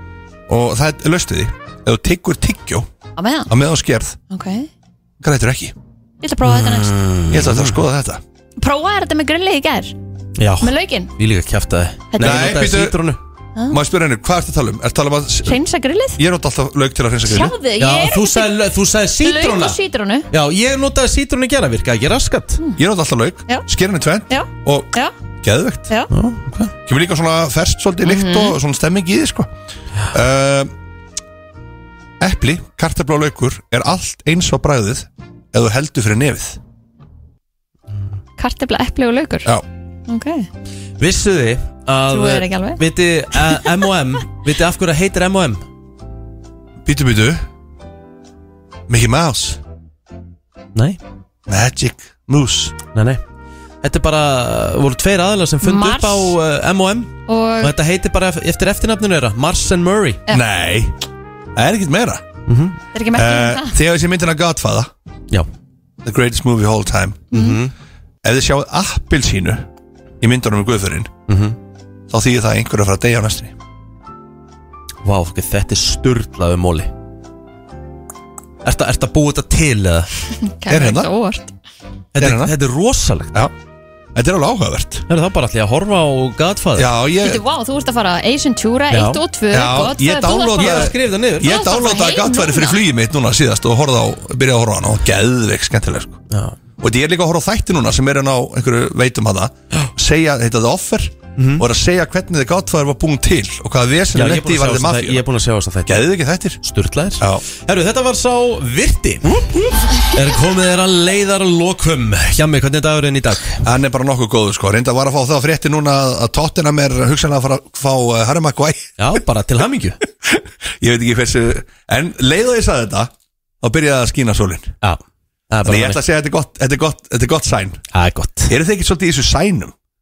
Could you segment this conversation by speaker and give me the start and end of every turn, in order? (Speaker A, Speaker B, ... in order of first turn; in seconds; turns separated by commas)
Speaker A: 0.5-2.9, Speaker B: 3.2-3.5, Speaker A: 3.5-4.2, Speaker B: 4.3-4.7, Speaker A: 5.2-5.7, Speaker B: 6.2-6.9, Speaker C: 6.4-7.8, Speaker A: 7.3-8.2, Speaker B: 8.6-9.9, Speaker C: 10.4-13.2, Speaker B: 10.6-11.1, Speaker B: 12.1-12.7, Speaker A: 12.2-13.0, Speaker A: 13.7-15.6, Speaker B: 15.5-16.2, Speaker A: 16.2-17.6, Speaker B: 17.2-18.6, Speaker C: 17.8-19.8, Speaker B: 19.2-20.3, Speaker C: 20.3-22.6, Speaker A: 22.8-25.9, Speaker B: 24.3-25.1, Speaker C: 26.1-26.7, Speaker A: 26.9-29.5, Speaker B: 28.0-28.6, Speaker A: 30.1-30.7, Speaker A: 32.2-36.6, Speaker B: 38.4-39.5, Speaker B: 40.1-40.5, Speaker C: 41.0-45.6, Speaker B: 42.1-42.8, Speaker A: 46.9-47.4, Speaker A: 48.9-49.6, Speaker C: 50.8-51.0, Speaker A: 51.5-52.8, Speaker C: 52.9-53.2, Speaker C: 53.8-60.2, Speaker B: 55.6-56.4, Speaker B: 57.3-57.7, Speaker A: 60.3-61.0, Speaker A: 61.6-62.2, Speaker C: 62.5-62.8, Speaker B: 62.9-63.8, Speaker A: 63.1-64.9, Speaker A: 66.0-67.3, Speaker B: 67.3-67.6, Speaker C: 67.3-67.7, Speaker A: 68.2-69.7, Speaker A: 70.2-71.1, Speaker C: 71.3-71.6, Speaker A: 72.1-73.5, Speaker C: 75.0-76.9, Speaker C: 78.6-80.1, Speaker B: 80.4-81.5, Speaker A: 80.7-81.1, Speaker C: 82.2-83.3, Speaker A: 82.2-82.5, Speaker A: 84.2-85.0, Speaker C: 85.1-86.9, Speaker A: 86.8-87.4, Speaker B: 87.2-92.8, Speaker C: 88.9-89.2, Speaker A: 89.5-96.2, Speaker C: 90.6-91.5, Speaker C: 96.3-96.6, Speaker A: 96.8-105.2, Speaker C: 101.4-101.7, Speaker C: 104.1-113.6, Speaker A: 105.9-106.6, Speaker A: 113.6-119.1, Speaker C: 119.0-120.0, Speaker A: 120.3-123.1, Speaker A: 123.6-124.8, Speaker C: 124.8-126.0, Speaker A: 125.7-127.8, Speaker C: 127.9-128.5, Speaker A: 128.5-129.7